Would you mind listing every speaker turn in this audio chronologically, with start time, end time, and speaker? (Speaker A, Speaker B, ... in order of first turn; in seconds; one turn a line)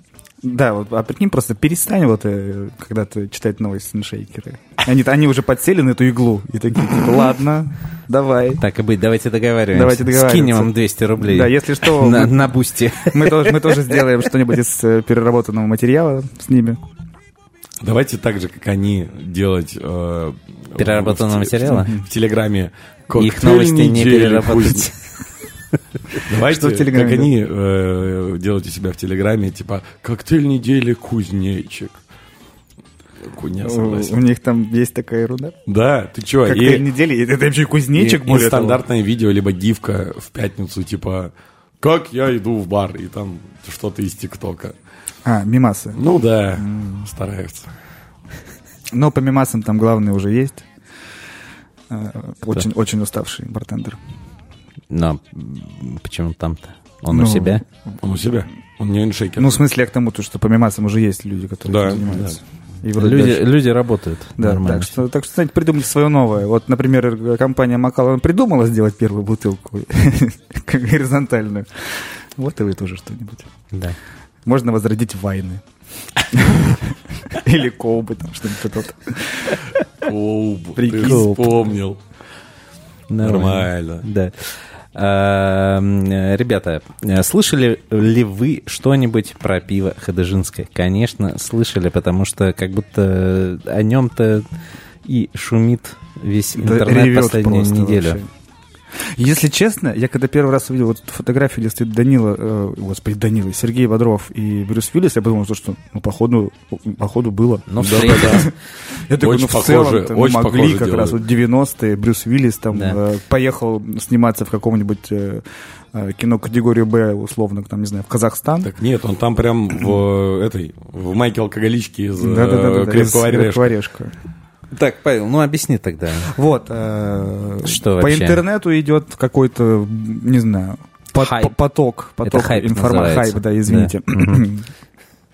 Speaker A: 0.4-8.6
Speaker B: 8.6-14.0
Speaker A: 9.7-16.8
Speaker C: 17.8-24.9
Speaker B: 20.8-21.9
Speaker A: 21.7-22.1
Speaker B: 23.2-25.1
Speaker C: 26.2-32.0
Speaker A: 26.4-27.3
Speaker C: 33.2-34.2
Speaker A: 33.6-35.6
Speaker C: 35.7-36.9
Speaker A: 36.5-38.8
Speaker C: 38.0-44.8
Speaker A: 45.2-46.0
Speaker C: 46.0-47.7
Speaker A: 46.6-47.1
Speaker A: 48.9-50.7
Speaker A: 51.9-54.0
Speaker B: 54.9-57.6
Speaker A: 57.1-57.6
Speaker C: 58.0-59.5
Speaker A: 59.4-63.5
Speaker C: 61.7-62.4
Speaker B: 63.0-65.0
Speaker A: 64.4-73.5
Speaker B: 73.7-74.0
Speaker A: 74.5-75.6
Speaker A: 76.3-79.6
Speaker C: 80.0-82.0
Speaker A: 80.8-81.4
Speaker B: 80.9-81.5
Speaker B: 83.1-94.5
Speaker C: 83.2-84.0
Speaker B: 95.0-98.2
Speaker A: 96.6-98.3
Speaker A: 99.1-118.7
Speaker B: 107.7-108.5
Speaker C: 107.8-108.5
Speaker C: 109.2-111.2
Speaker B: 112.7-113.0
Speaker C: 118.6-123.7
Speaker A: 122.2-124.2
Speaker B: 124.7-126.3
Speaker A: 126.3-134.7
Speaker B: 127.6-128.4
Speaker B: 131.2-131.5
Speaker B: 132.2-134.5